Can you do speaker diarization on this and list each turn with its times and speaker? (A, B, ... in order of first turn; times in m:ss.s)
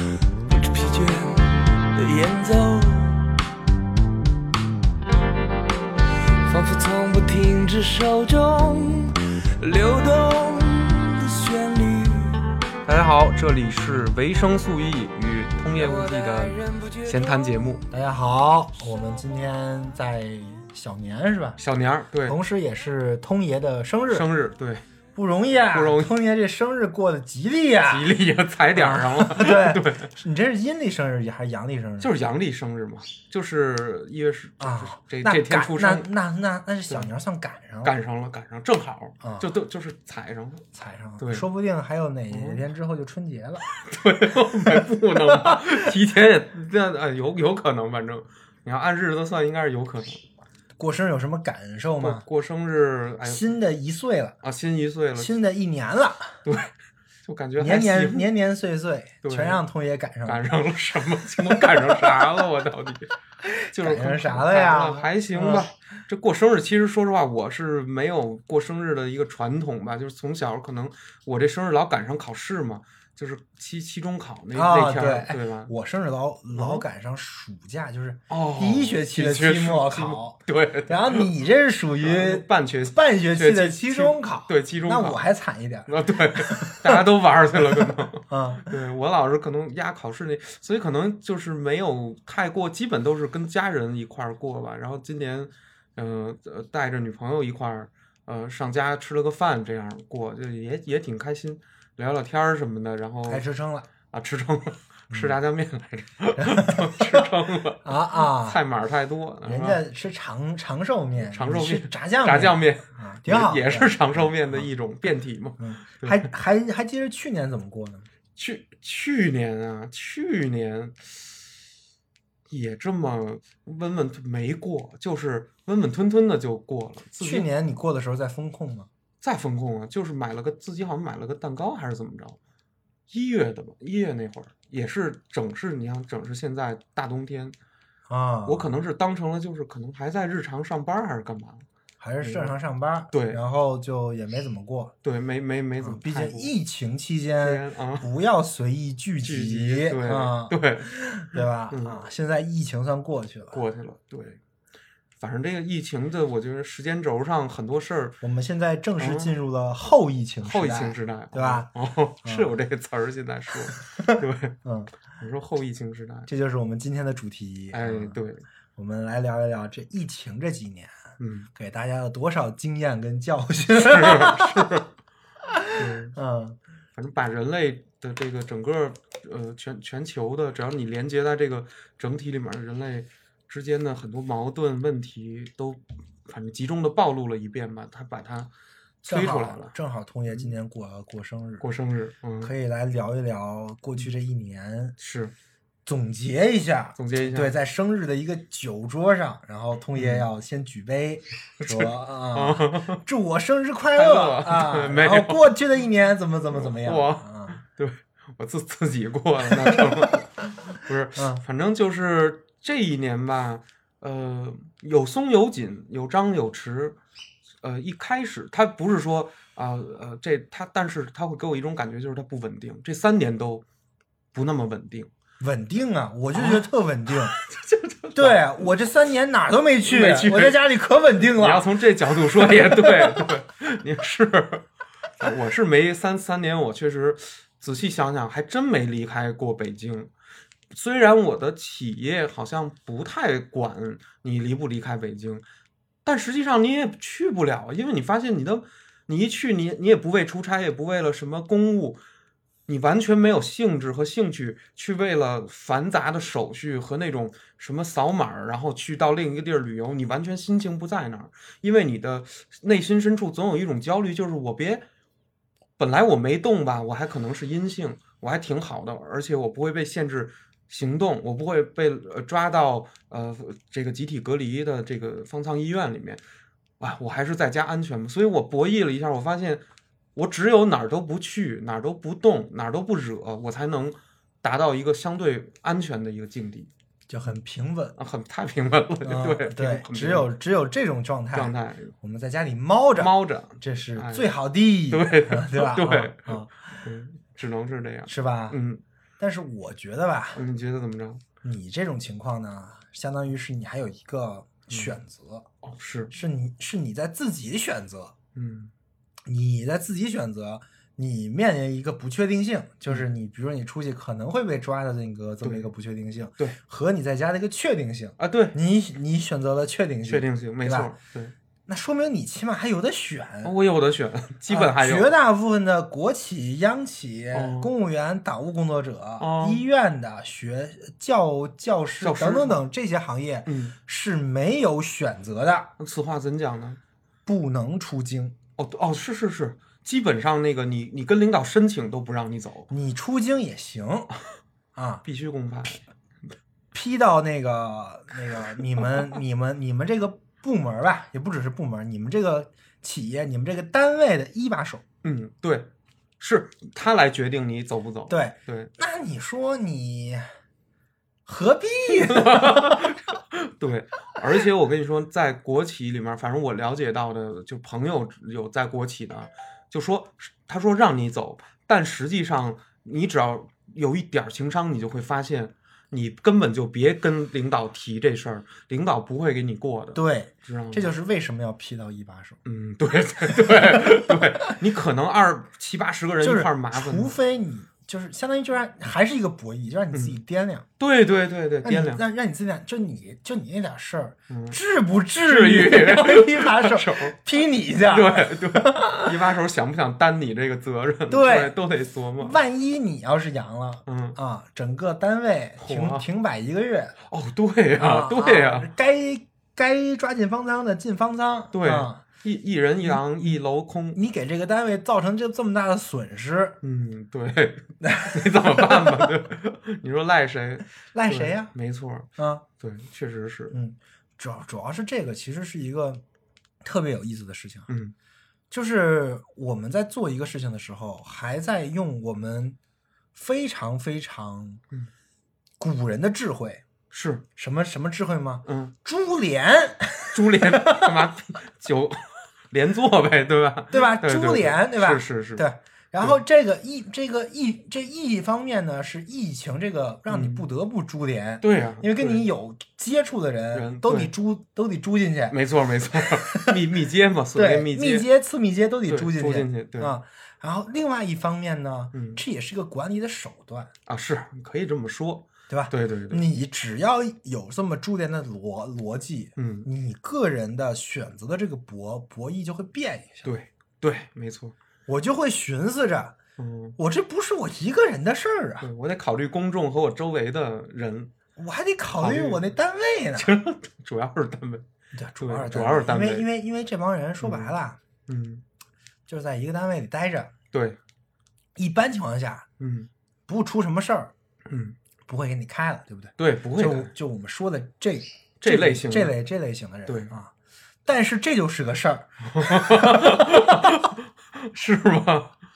0:00.4-0:03.3 A
0:06.4-0:12.5 A
0:12.8-0:17.8 B
0:15.7-0:17.6 A
0:17.9-0:21.6 C
0:21.6-0:22.4 B
0:22.2-0:24.3 C
0:24.1-0:24.8 B
0:25.1-0:28.1 C
0:25.7-0:26.1 B
0:27.9-0:30.1 B
0:28.7-0:32.1 C
0:32.0-0:36.1 B
0:34.6-0:37.9 C
0:37.8-0:40.7 B
0:39.2-0:39.5 C
0:40.7-0:43.6 C
0:41.2-0:41.4 B
0:42.3-0:42.6 B
0:43.8-0:50.2 B
0:44.5-0:45.6 C
0:50.8-0:52.2 C
0:52.0-0:53.5 B
0:53.2-0:54.4 C
0:54.4-0:55.3 B
0:55.2-0:56.4 C
0:56.4-0:56.7 B
0:57.2-0:58.3 B
0:57.6-1:00.5 C
0:59.2-0:59.6 B
1:00.2-1:03.1 B
1:01.4-1:02.2 C
1:03.4-1:05.7 C
1:03.7-1:15.7 B
1:14.5-1:27.0 C
1:16.5-1:16.8 B
1:18.3-1:21.3 B
1:22.0-1:25.2 B
1:25.9-1:43.4 B
1:27.6-1:28.7 C
1:43.3-1:43.9 C
1:44.1-1:49.8 B
1:46.4-1:47.3 C
1:47.8-1:48.6 C
1:49.4-1:54.7 C
1:51.2-1:56.3 B
1:55.6-1:58.1 C
1:58.4-2:01.4 B
2:02.5-2:07.5 B
2:07.2-2:08.9 C
2:09.2-2:12.4 B
2:13.1-2:17.6 B
2:18.1-2:18.7 C
2:18.4-2:21.6 B
2:22.0-2:24.9 C
2:22.2-2:22.6 B
2:23.1-2:23.4 B
2:25.0-2:26.5 B
2:25.8-2:33.6 C
2:27.4-2:28.1 B
2:29.2-2:32.0 B
2:33.5-2:34.4 B
2:35.2-2:38.2 B
2:38.2-2:41.7 C
2:39.0-2:39.3 B
2:40.4-2:44.6 B
2:42.2-2:42.5 C
2:44.0-2:44.9 C
2:45.2-2:46.3 B
2:46.3-2:48.2 C
2:47.7-2:48.5 B
2:48.8-2:51.0 C
2:51.2-2:51.5 B
2:51.5-2:54.7 C
2:53.8-2:54.9 B
2:55.4-2:56.6 C
2:55.7-2:56.2 B
2:56.9-3:08.5 B
3:09.0-3:09.8 B
3:09.0-3:11.7 C
3:10.3-3:10.5 B
3:11.6-3:12.5 B
3:12.4-3:15.0 C
3:15.0-3:15.3 B
3:15.8-3:27.6 C
3:17.0-3:17.6 B
3:19.9-3:20.3 B
3:21.6-3:23.0 B
3:23.9-3:25.5 B
3:26.5-3:37.0 B
3:29.5-3:30.2 C
3:31.2-3:31.4 C
3:37.6-3:43.6 B
3:44.3-3:45.1 B
3:45.4-3:47.4 C
3:46.3-3:48.7 B
3:48.1-3:53.3 C
3:49.8-3:50.6 B
3:51.3-4:00.1 B
4:00.7-4:05.4 B
4:06.0-4:12.0 B
4:12.7-4:24.8 B
4:25.8-4:36.2 B
4:36.8-4:39.6 B
4:40.2-4:46.7 B
4:47.1-4:48.0 C
4:48.0-4:50.3 B
4:49.0-4:56.5 C
4:51.3-4:51.9 B
4:53.0-4:54.3 B
4:54.9-4:58.8 B
4:58.1-4:58.6 C
4:59.2-5:00.4 C
5:00.4-5:01.2 B
5:01.4-5:05.5 C
5:04.7-5:05.0 B
5:05.6-5:06.1 B
5:06.1-5:08.1 C
5:08.4-5:08.7 B
5:09.2-5:20.9 C
5:15.4-5:15.7 B
5:18.2-5:18.6 B
5:20.1-5:21.4 B
5:21.7-5:23.6 C
5:23.4-5:25.1 B
5:24.5-5:35.7 C
5:27.3-5:27.7 B
5:29.2-5:29.6 B
5:32.0-5:32.6 B
5:33.4-5:33.8 B
5:35.8-5:36.8 B
5:37.2-5:38.4 C
5:38.6-5:42.7 B
5:42.7-5:44.1 C
5:44.8-5:45.0 C
5:45.0-5:45.8 B
5:46.7-5:54.8 C
5:55.0-5:58.7 B
5:58.1-6:00.2 C
6:01.2-6:02.9 C
6:02.1-6:20.9 B
6:19.9-6:22.4 C
6:22.4-6:27.1 B
6:23.3-6:24.3 C
6:26.2-6:30.6 C
6:29.9-6:30.2 B
6:30.8-6:32.0 B
6:31.6-6:39.2 C
6:34.3-6:34.6 B
6:35.2-6:37.2 B
6:37.9-6:42.4 B
6:41.1-6:41.6 C
6:42.2-6:47.0 C
6:43.9-6:44.2 B
6:45.6-6:46.1 B
6:47.1-6:48.7 B
6:47.8-6:52.0 C
6:51.5-6:54.0 B
6:52.8-6:53.4 C
6:53.9-6:56.6 C
6:56.6-7:03.6 B
6:57.8-6:59.1 C
7:00.9-7:01.5 C
7:02.2-7:02.4 C
7:03.5-7:06.0 C
7:06.6-7:07.7 C
7:07.7-7:07.9 B
7:08.5-7:12.6 C
7:13.1-7:14.6 C
7:15.6-7:16.6 C
7:16.9-7:17.2 B
7:17.4-7:21.1 C
7:18.4-7:18.7 B
7:20.1-7:25.4 B
7:23.7-7:35.4 C
7:30.1-7:30.5 B
7:31.4-7:32.2 B
7:33.5-7:34.1 B
7:35.3-7:38.1 B
7:35.9-7:36.6 C
7:37.4-7:43.7 C
7:38.9-7:40.0 B
7:41.9-7:42.2 B
7:43.9-7:46.3 B
7:45.5-7:53.3 C
7:49.4-7:49.7 B
7:53.2-7:54.6 B
7:54.9-7:56.2 C
7:56.4-7:56.8 B
7:56.8-7:58.7 C
7:58.6-8:01.1 B
8:01.4-8:03.3 C
8:02.0-8:02.5 B
8:03.2-8:04.6 B
8:04.9-8:07.8 C
8:05.2-8:06.3 B
8:07.2-8:08.4 B
8:09.1-8:10.3 C
8:10.5-8:10.8 B
8:11.6-8:12.5 C
8:12.6-8:12.9 B
8:13.3-8:14.1 C
8:14.5-8:14.8 B
8:15.1-8:20.3 C
8:16.2-8:16.9 B
8:18.4-8:19.2 B
8:19.9-8:20.1 B
8:20.8-8:23.7 C
8:22.2-8:25.4 B